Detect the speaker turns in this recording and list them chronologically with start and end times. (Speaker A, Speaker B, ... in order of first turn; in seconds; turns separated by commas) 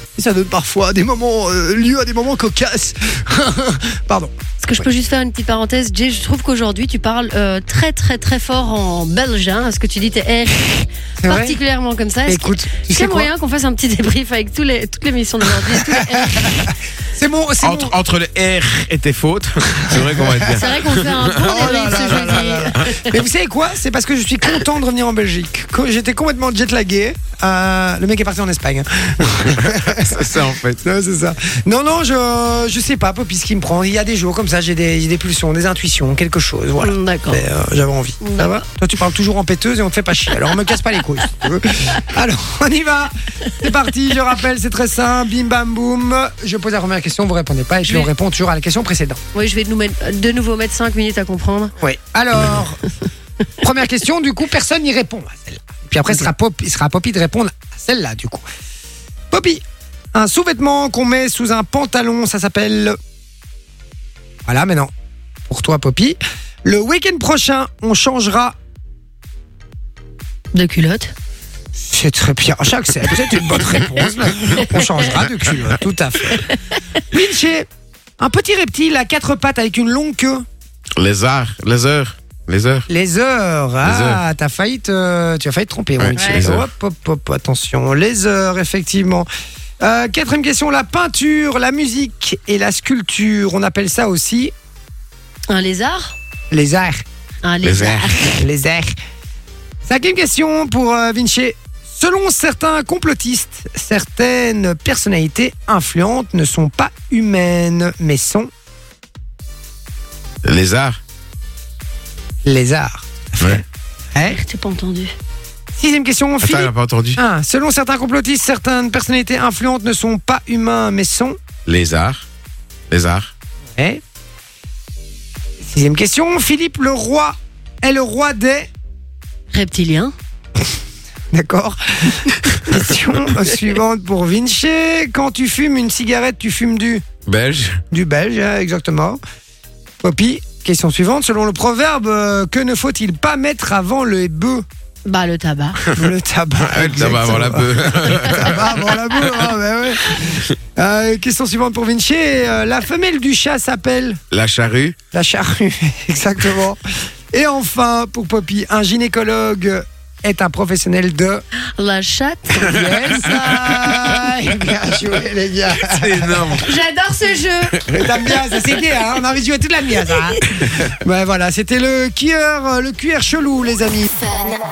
Speaker A: 0.1-4.3, Speaker B: 4.6-16.7, Speaker A: 11.2-11.6, Speaker A: 12.3-13.3, Speaker A: 15.7-18.0, Speaker C: 17.6-22.8, Speaker A: 19.8-20.5, Speaker B: 20.4-23.1, Speaker A: 21.3-30.2, Speaker C: 29.5-30.8, Speaker A: 30.8-49.2, Speaker B: 36.8-37.4, Speaker B: 38.2-38.6, Speaker B: 47.8-48.1, Speaker B: 49.3-51.7, Speaker A: 51.8-52.8, Speaker A: 53.6-58.4, Speaker A: 59.3-59.6, Speaker A: 60.1-63.0, Speaker A: 64.5-64.9, Speaker A: 65.5-68.5, Speaker B: 70.5-71.1, Speaker A: 71.9-76.5, Speaker B: 74.6-75.2, Speaker A: 77.1-77.7, Speaker A: 78.2-80.5, Speaker C: 81.0-82.8, Speaker A: 82.9-89.3, Speaker C: 83.8-84.2, Speaker C: 86.0-86.7, Speaker B: 86.2-86.4, Speaker A: 89.8-94.5, Speaker B: 95.5-96.1, Speaker A: 96.5-97.0, Speaker B: 97.4-98.5, Speaker C: 97.6-98.1, Speaker A: 98.3-98.9, Speaker A: 99.8-108.5, Speaker C: 110.4-111.0, Speaker A: 112.4-113.6, Speaker A: 114.1-114.4, Speaker B: 114.2-115.1, Speaker A: 115.7-121.3, Speaker C: 116.4-117.2, Speaker C: 121.7-122.2, Speaker C: 122.9-123.3, Speaker A: 125.6-128.7, Speaker B: 129.5-130.1, Speaker A: 131.3-137.0, Speaker C: 137.2-137.8, Speaker A: 137.9-139.2, Speaker A: 140.0-144.6, Speaker B: 145.0-145.8, Speaker A: 145.9-154.2, Speaker C: 146.6-149.4, Speaker C: 154.3-154.9, Speaker A: 155.1-156.8, Speaker A: 157.3-161.4, Speaker B: 161.8-164.1, Speaker A: 162.6-166.6, Speaker C: 165.8-166.7, Speaker B: 166.6-167.7, Speaker A: 167.9-174.1